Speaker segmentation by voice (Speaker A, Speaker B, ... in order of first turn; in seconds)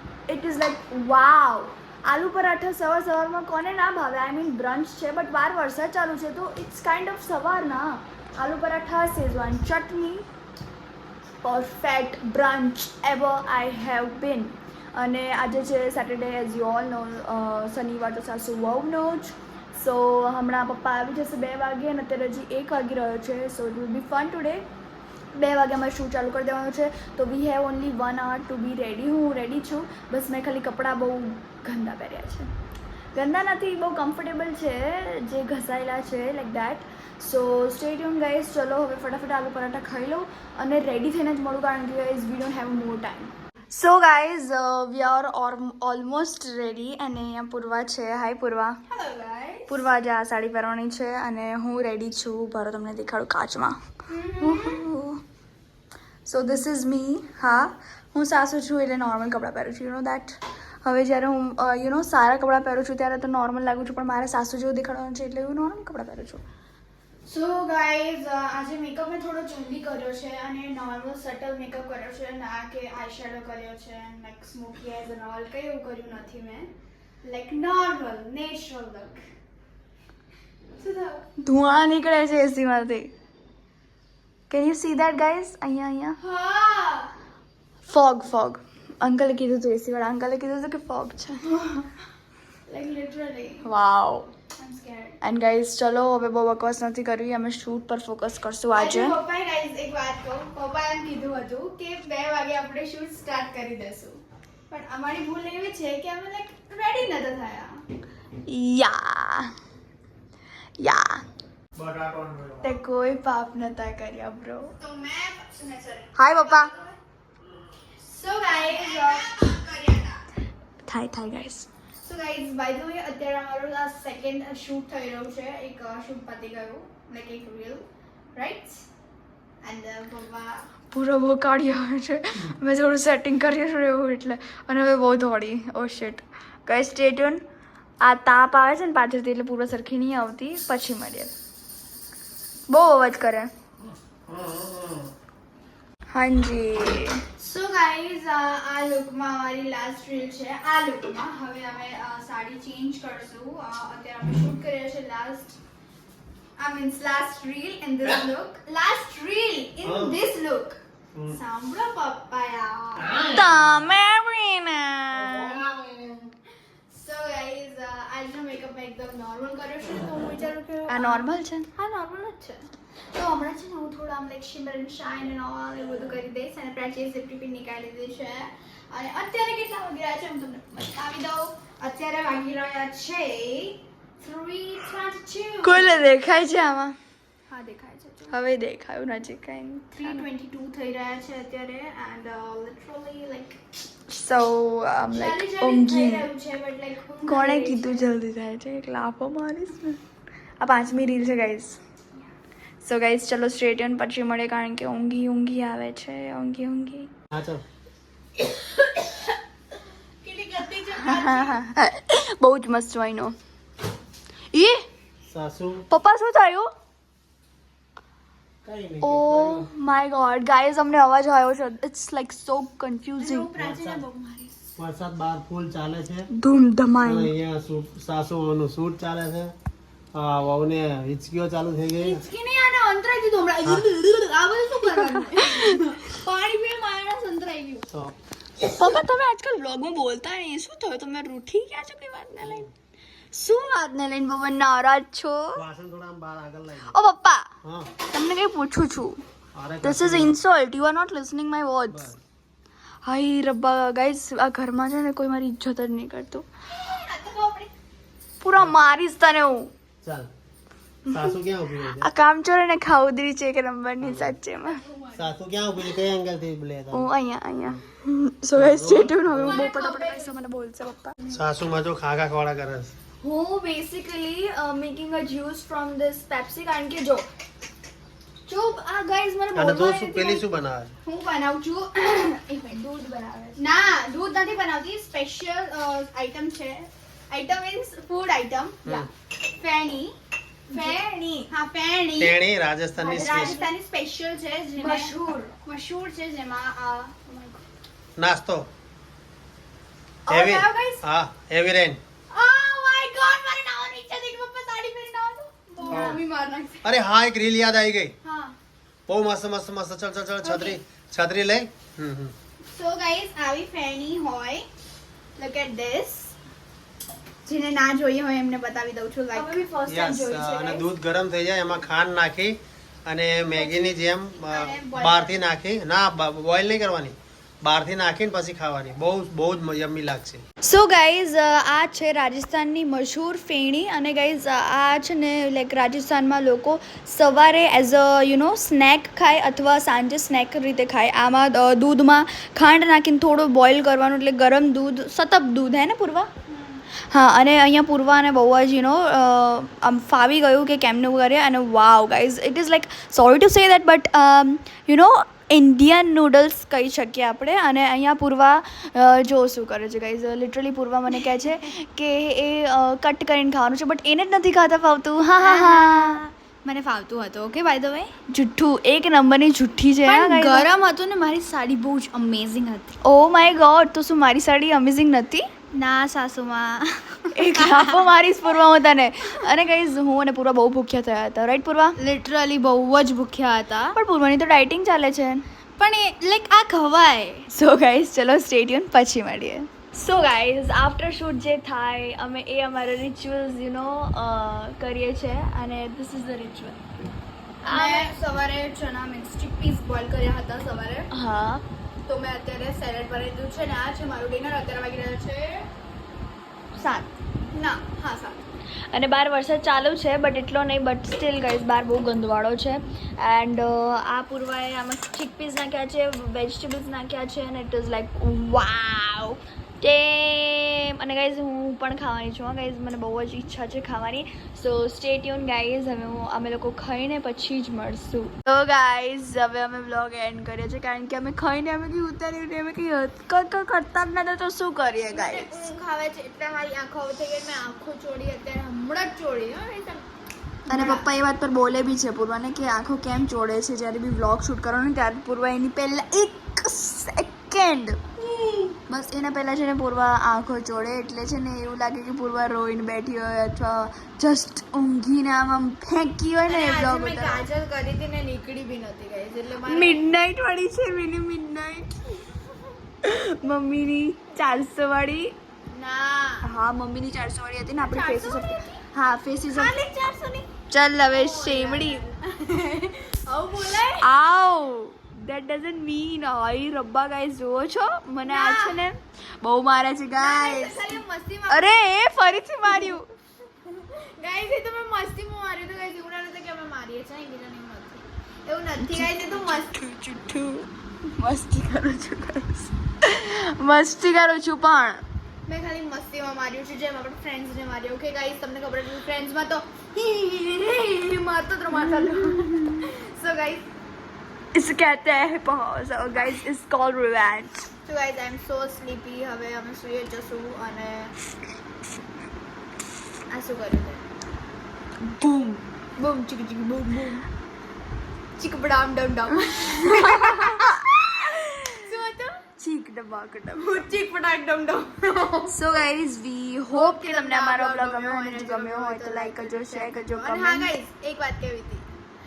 Speaker A: 0.3-10.2, 11.4-24.7, 25.3-32.5, 33.1-48.8, 49.7-53.8, 54.4-55.2, 56.3-66.4, 81.4-83.1, 84.5-86.2, 87.8-91.6, 93.6-94.3, 95.2-99.2, 108.5-109.5, 110.8-111.2, 112.6-114.7, 116.2-116.7, 120.8-121.7, 130.9-137.4, 138.0-141.3, 142.7-143.5, 146.1-147.2, 163.2-165.7, 170.9-171.7, 185.6-187.0, 188.3-190.3, 194.1-196.3, 197.3-200.0, 200.6-201.8, 202.8-207.1, 211.0-213.4, 215.9-216.7, 219.0-223.5, 226.3-227.3, 238.6-242.7, 243.3-245.6, 246.8-247.5, 248.1-249.2, 249.8-252.1, 253.0-256.5, 258.4-259.7, 261.9-264.8, 266.9-271.2, 273.2-277.3, 278.5-280.4, 282.4-283.6, 290.7-291.5, 293.0-293.7, 294.8-295.5, 300.3-301.0, 305.8-306.2, 319.3-320.9, 330.6-346.3, 347.1-366.2, 368.3-370.7, 373.0-375.5, 377.4-382.0, 383.9-385.4, 387.5-396.8, 397.6-398.1, 401.1-401.6, 406.8-407.1, 408.9-435.7, 440.7-448.0, 448.9-457.5, 459.6-462.2, 463.0-465.4, 466.4-469.7, 470.7-472.1, 474.0-483.1, 488.8-495.0, 501.7-502.8, 504.5-507.7, 515.0-515.6, 519.8-521.8, 522.6-523.9, 525.5-530.7
Speaker B: 48.9-49.8, 54.1-54.8, 67.3-76.7, 77.2-79.2, 80.8-81.2, 86.2-87.1, 92.7-93.7, 94.6-95.2, 98.8-104.2, 104.7-107.8, 114.8-117.0, 118.0-120.2, 122.0-128.8, 129.6-130.7, 147.4-155.6, 156.6-163.3, 166.9-186.0, 187.5-188.3, 189.9-193.6, 195.1-198.1, 208.5-209.2, 210.2-211.6, 214.5-214.8, 223.2-224.6, 232.0-237.9, 256.7-257.7, 264.6-265.3, 269.3-270.3, 281.1-282.4, 283.6-289.1, 289.6-290.1, 290.7-292.4, 293.1-297.6, 302.3-306.9, 308.2-308.6, 310.4-310.8, 312.7-314.7, 315.4-316.3, 317.5-319.7, 323.6-325.4, 346.5-346.8, 365.4-368.1, 370.1-373.0, 375.7-378.1, 382.0-384.0, 385.8-387.5, 397.7-401.1, 402.1-405.7, 407.5-408.4, 435.1-440.1, 440.7-441.0, 448.2-448.8, 456.5-460.0, 465.7-466.4, 467.8-468.8, 469.5-470.5, 471.1-474.1, 478.2-478.8, 480.2-481.8, 483.6-489.8, 495.5-503.7, 507.9-511.1, 513.3-514.0, 516.0-517.3, 518.4-522.4, 523.5-525.8, 526.7-531.9
Speaker C: 111.8-112.7, 144.3-145.0, 159.8-160.2, 207.3-207.6, 215.3-215.8, 218.6-219.7, 223.6-224.1, 224.8-226.3, 227.0-229.5, 230.1-232.2, 245.5-247.0, 247.6-247.9, 249.5-250.4, 251.9-252.2, 260.0-260.3, 261.1-262.1, 264.0-264.4, 265.1-267.1, 268.6-269.7, 271.3-272.9, 279.6-280.9, 292.2-293.6, 298.2-298.7, 300.3-302.0, 305.9-306.2, 306.8-308.1, 309.1-312.3, 319.9-330.4